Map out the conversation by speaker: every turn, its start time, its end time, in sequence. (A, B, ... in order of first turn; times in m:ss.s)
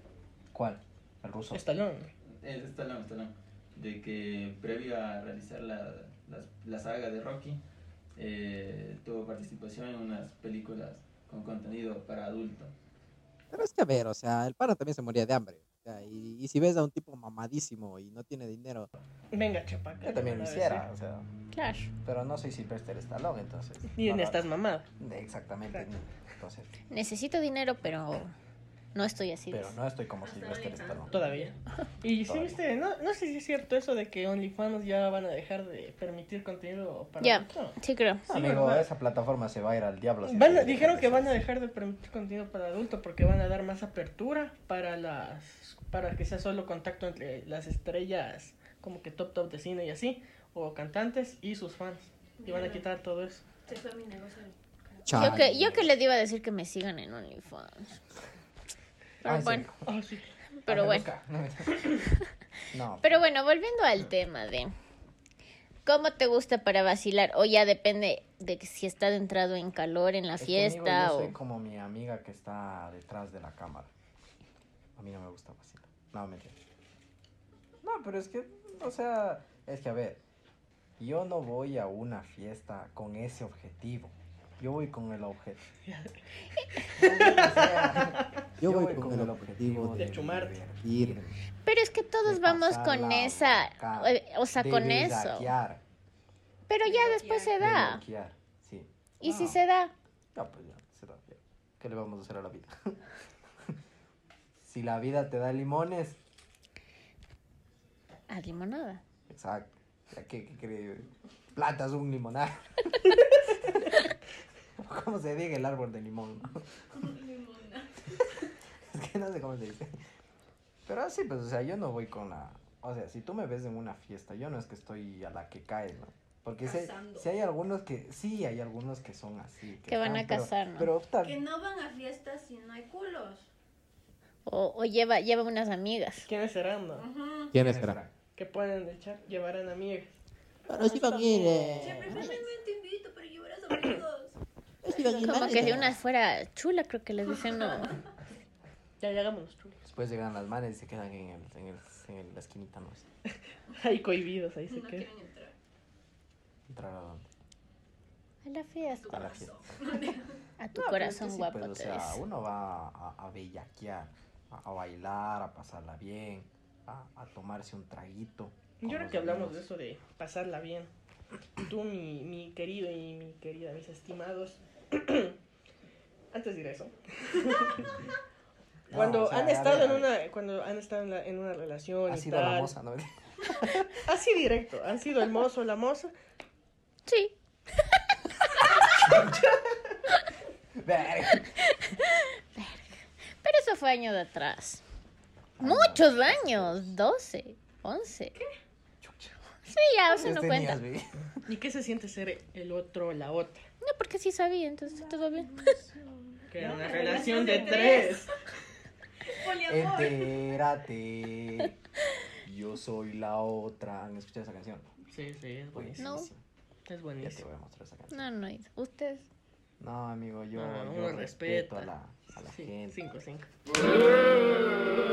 0:00.5-0:01.6 A
0:01.5-0:02.1 B
0:02.2-0:07.6 C
0:08.2-0:12.7 C
0:13.5-0:18.9 D
0:19.3-0:20.9 B
0:20.0-0:21.3 A
0:21.5-0:21.9 E
0:22.0-0:24.5 A
0:24.0-0:24.9 B
0:25.0-0:26.7 A
0:26.9-0:28.3 E
0:29.0-0:29.8 E
0:29.5-0:31.2 A
0:30.2-0:31.5 F
0:31.1-0:38.9 B
0:32.1-0:32.6 A
0:37.2-0:38.2 E
0:38.3-0:41.4 A
0:40.2-0:53.4 B
0:52.4-0:52.9 F
0:53.7-0:55.0 F
0:55.1-0:55.8 D
0:55.1-0:58.0 E
0:55.1-0:55.9 A
0:59.2-0:59.7 E
0:59.2-0:59.9 A
0:59.9-1:00.3 B
1:00.6-1:01.1 E
1:00.7-1:02.0 A
1:02.7-1:03.3 A
1:03.0-1:04.7 E
1:05.9-1:11.4 E
1:10.4-1:13.9 A
1:15.0-1:16.6 A
1:17.8-1:20.2 A
1:21.0-1:25.6 A
1:25.8-1:26.2 B
1:26.7-1:28.3 B
1:27.0-1:31.4 A
1:28.6-1:30.1 D
1:30.0-1:30.6 B
1:30.8-1:31.2 D
1:31.6-1:35.5 E
1:32.2-1:35.8 A
1:36.7-1:38.0 E
1:36.8-1:37.6 F
1:37.6-1:39.6 A
1:39.2-1:39.9 E
1:40.3-1:43.0 A
1:44.6-1:46.2 A
1:48.3-1:49.0 E
1:49.3-1:53.8 A
1:54.8-1:56.7 A
1:56.9-1:58.0 F
1:58.9-2:00.0 A
2:00.9-2:11.4 A
2:06.6-2:07.3 F
2:09.9-2:10.9 E
2:11.2-2:13.5 F
2:14.5-2:16.3 E
2:16.3-2:17.1 B
2:16.9-2:17.6 F
2:17.5-2:18.0 D
2:17.5-2:18.1 A
2:18.4-2:20.2 B
2:20.7-2:22.3 D
2:21.0-2:24.4 F
2:24.8-2:26.0 D
2:25.2-2:28.0 E
2:27.6-2:28.0 F
2:29.0-2:29.8 B
2:29.9-2:33.1 A
2:33.8-2:35.1 B
2:34.7-2:35.6 F
2:36.7-2:37.3 A
2:38.4-2:39.4 E
2:38.9-2:40.4 F
2:39.1-2:39.8 A
2:40.6-2:42.2 E
2:40.7-2:49.6 A
2:48.8-2:50.9 B
2:51.6-2:55.4 B
2:56.3-2:58.0 B
2:58.9-3:02.7 B
2:58.9-3:00.1 A
3:02.1-3:04.0 A
3:04.0-3:06.1 B
3:07.1-3:07.4 E
3:09.0-3:10.0 A
3:10.8-3:11.5 A
3:11.4-3:14.8 E
3:15.6-3:17.0 A
3:15.6-3:18.4 E
3:19.0-3:19.4 A
3:19.7-3:20.8 E
3:20.1-3:21.3 A
3:21.5-3:23.7 B
3:23.8-3:25.6 E
3:25.1-3:25.8 F
3:26.4-3:28.3 F
3:26.5-3:28.3 B
3:29.3-3:30.6 F
3:29.6-3:31.8 A
3:32.4-3:34.9 A
3:35.1-3:36.2 B
3:35.7-3:36.4 A
3:36.0-3:36.3 E
3:36.9-3:37.4 B
3:37.2-3:38.3 A
3:38.1-3:39.3 E
3:39.8-3:43.0 A
3:40.6-3:41.9 B
3:42.4-3:44.7 B